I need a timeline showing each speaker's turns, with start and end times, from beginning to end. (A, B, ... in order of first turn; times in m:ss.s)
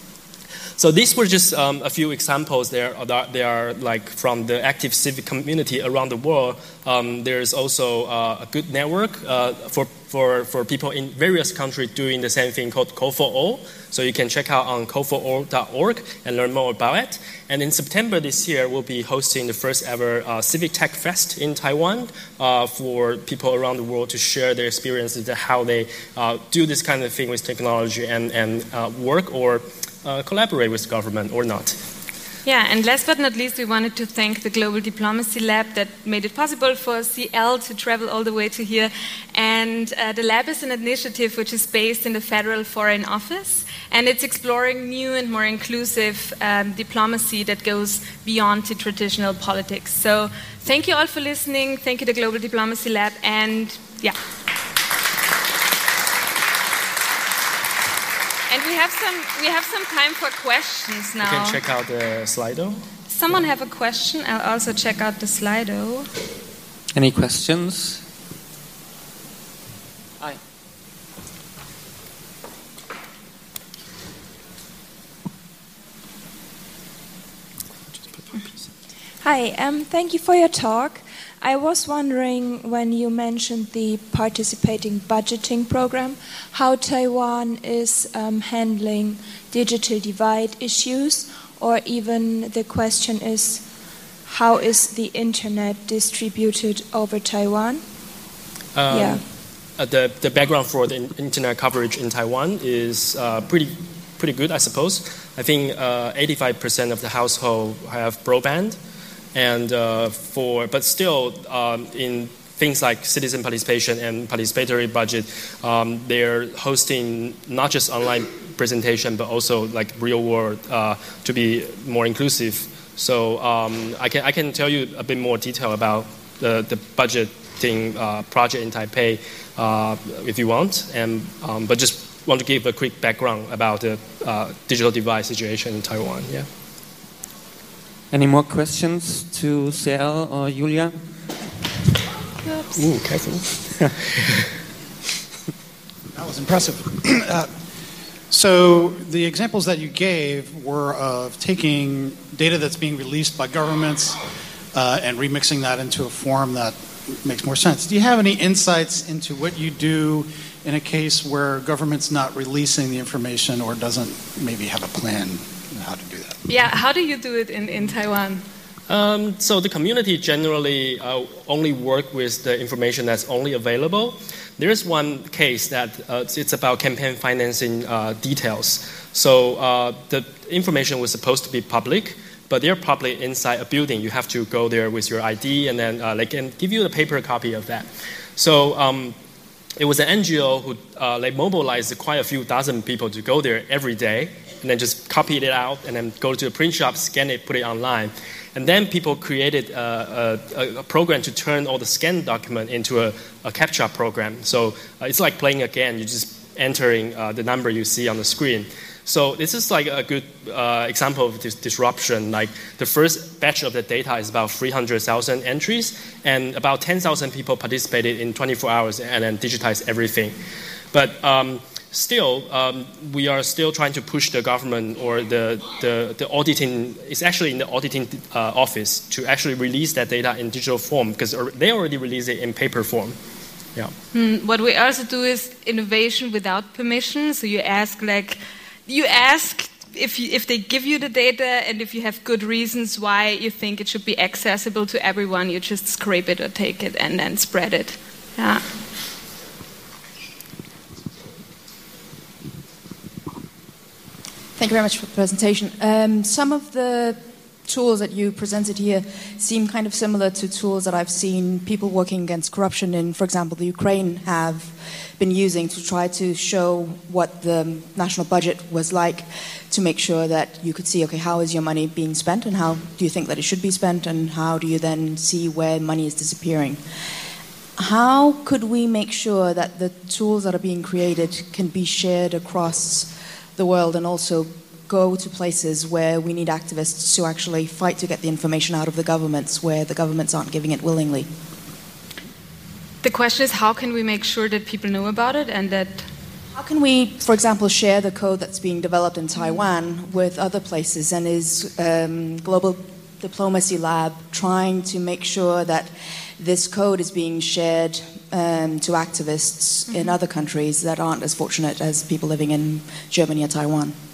0:00.8-0:31.8 A
0:32.4-0:54.2 B
0:58.5-1:01.6 B
1:01.2-1:02.8 A
1:03.1-1:06.1 B
1:06.9-1:08.0 C
1:17.9-1:18.6 A
1:19.2-1:33.6 D
1:34.3-1:37.8 D
1:38.8-1:39.2 A
1:38.9-1:39.2 D
1:39.8-1:48.8 A
1:49.4-2:16.5 A
2:18.1-2:21.1 C
2:22.7-2:24.5 A
2:26.1-2:27.5 E
2:28.3-2:34.2 E
2:34.7-2:46.4 E
2:46.5-2:48.4 B
2:48.9-3:09.2 A
3:09.8-3:40.4 A
3:40.9-3:53.2 A
3:54.1-4:08.6 B
4:14.6-4:36.8 F
4:37.8-4:51.3 F
4:53.0-4:56.1 B
4:56.5-5:14.0 F